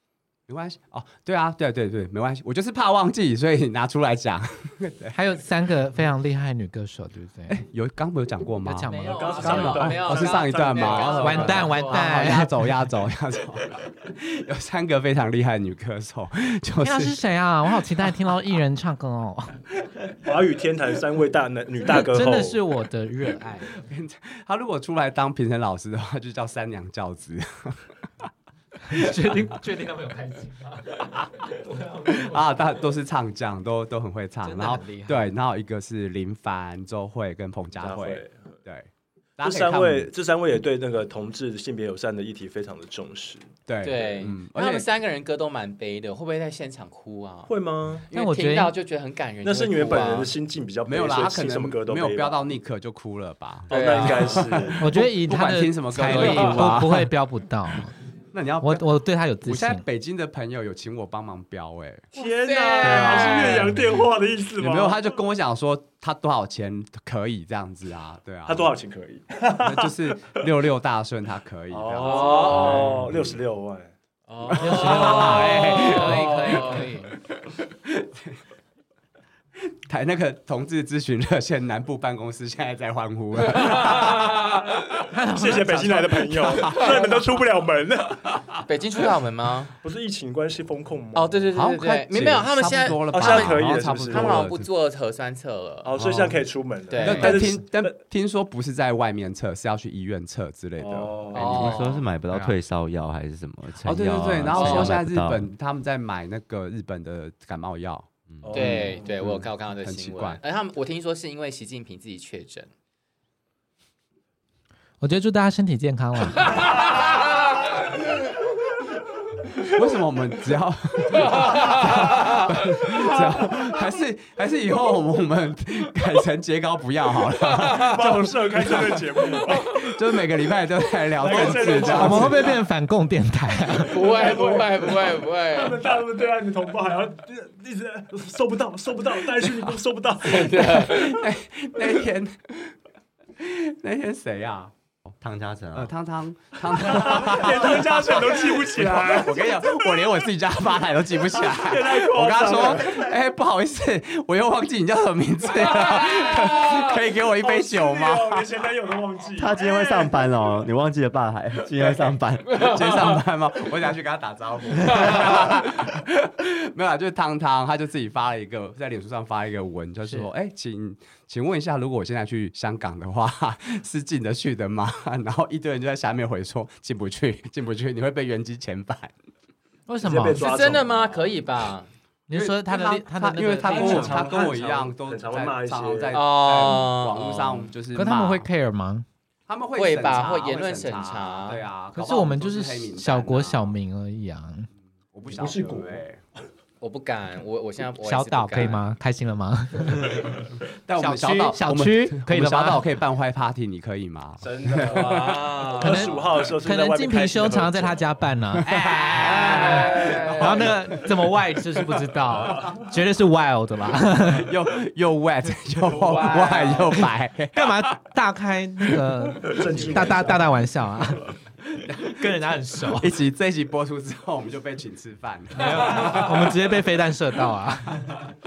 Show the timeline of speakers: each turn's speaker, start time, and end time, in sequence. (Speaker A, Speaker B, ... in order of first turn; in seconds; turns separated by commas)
Speaker A: 0.5-5.2, Speaker B: 5.1-7.6, Speaker A: 7.5-17.2, Speaker B: 8.6-9.9, Speaker C: 8.9-12.4, Speaker D: 9.1-11.6, Speaker B: 11.2-12.5, Speaker B: 16.8-19.6, Speaker D: 20.2-22.6, Speaker B: 22.1-23.7, Speaker A: 23.8-27.9, Speaker B: 28.9-32.4, Speaker A: 28.9-29.3, Speaker A: 32.1-40.1, Speaker B: 34.4-35.3, Speaker D: 37.8-38.5, Speaker D: 39.4-43.5, Speaker A: 43.7-44.9, Speaker C: 43.8-47.5, Speaker D: 47.5-48.1, Speaker C: 48.1-50.3, Speaker B: 48.1-48.7, Speaker D: 49.4-52.4, Speaker A: 50.9-57.1, Speaker D: 53.7-54.9, Speaker C: 53.7-54.7, Speaker B: 54.8-58.0, Speaker C: 56.0-56.7, Speaker A: 58.3-58.9, Speaker B: 58.6-59.8, Speaker A: 59.4-62.1, Speaker D: 62.1-65.1, Speaker C: 62.1-63.8, Speaker A: 62.8-68.8, Speaker D: 68.5-70.4, Speaker A: 69.6-73.4, Speaker D: 71.7-73.9, Speaker C: 72.0-72.9, Speaker C: 74.3-76.9, Speaker A: 74.5-78.4, Speaker B: 74.5-77.1, Speaker A: 79.9-84.3, Speaker C: 83.5-84.5, Speaker B: 85.1-87.2, Speaker D: 85.3-88.4, Speaker C: 88.7-89.8, Speaker D: 89.8-91.5, Speaker C: 91.2-95.9, Speaker A: 91.5-94.7, Speaker D: 93.1-94.5, Speaker D: 95.8-98.0, Speaker E: 96.0-96.3, Speaker C: 96.9-97.6, Speaker A: 97.0-101.8, Speaker D: 100.8-101.8, Speaker C: 101.3-102.0, Speaker E: 101.5-105.5, Speaker A: 103.8-108.1, Speaker C: 104.5-105.0, Speaker E: 108.3-108.6, Speaker D: 108.4-109.1, Speaker C: 108.5-112.7, Speaker A: 108.7-110.4, Speaker B: 115.0-116.6, Speaker A: 119.7-132.4, Speaker C: 127.5-128.1, Speaker D: 127.8-130.0, Speaker D: 131.2-132.5, Speaker B: 131.8-133.9, Speaker D: 133.8-140.9, Speaker C: 133.9-135.8, Speaker A: 139.4-139.7, Speaker C: 140.2-141.2, Speaker A: 140.5-142.7, Speaker A: 143.4-144.7, Speaker E: 145.2-145.9, Speaker A: 145.7-158.5, Speaker D: 146.6-150.1, Speaker D: 151.3-153.2, Speaker C: 155.9-156.4, Speaker D: 156.4-160.6, Speaker E: 159.4-162.7, Speaker A: 162.6-179.1, Speaker C: 162.6-163.2, Speaker C: 165.1-165.6, Speaker B: 179.9-180.4, Speaker D: 180.0-181.3, Speaker C: 180.4-181.9, Speaker B: 182.3-184.3, Speaker A: 182.3-188.5, Speaker D: 183.6-186.2, Speaker C: 186.1-187.7, Speaker B: 187.9-189.1, Speaker A: 189.5-193.8, Speaker C: 189.8-191.6, Speaker B: 191.9-194.7, Speaker A: 195.1-196.2, Speaker D: 195.3-196.1, Speaker C: 196.8-198.9, Speaker B: 198.0-200.3, Speaker A: 200.9-205.5, Speaker B: 201.0-202.8, Speaker D: 204.4-208.0, Speaker C: 204.9-206.3, Speaker B: 205.8-214.5, Speaker A: 208.6-211.0, Speaker C: 209.2-210.6, Speaker D: 209.5-210.5, Speaker A: 214.3-217.9, Speaker C: 215.9-217.0, Speaker D: 215.9-216.7, Speaker B: 217.5-221.3, Speaker D: 219.4-220.6, Speaker A: 221.8-222.4, Speaker B: 222.0-223.2, Speaker A: 223.0-226.6, Speaker B: 225.6-228.1